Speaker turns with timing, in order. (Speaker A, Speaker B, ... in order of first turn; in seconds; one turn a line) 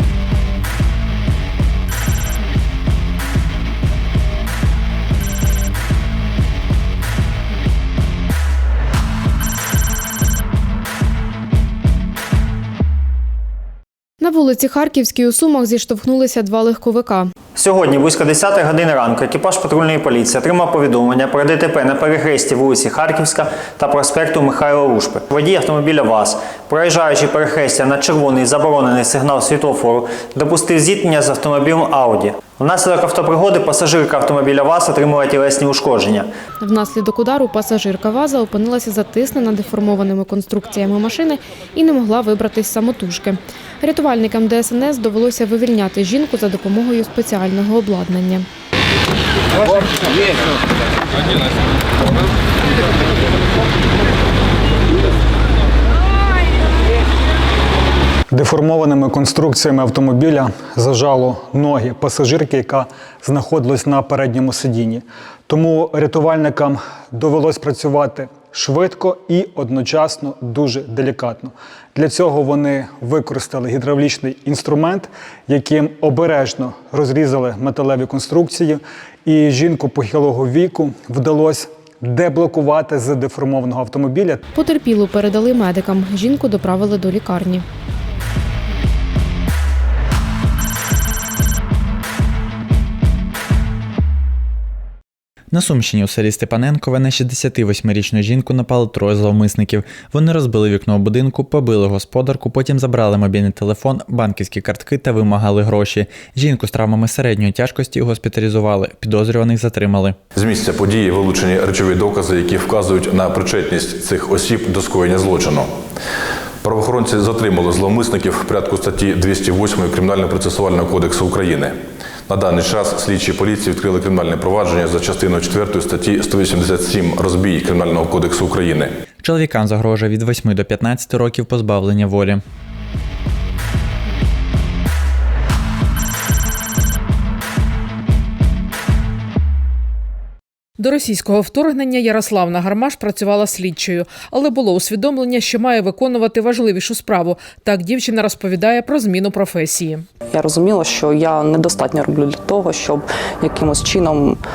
Speaker A: 14.2-17.3
Speaker B: 17.6-36.3
Speaker A: 36.6-48.5
Speaker C: 58.3-84.4
Speaker A: 84.5-87.6
Speaker D: 95.5-110.2
Speaker E: 110.3-115.7
Speaker E: 116.6-121.7
Speaker E: 122.3-128.9
Speaker D: 129.2-132.4
Speaker F: 140.8-150.0
Speaker G: 150.3-154.4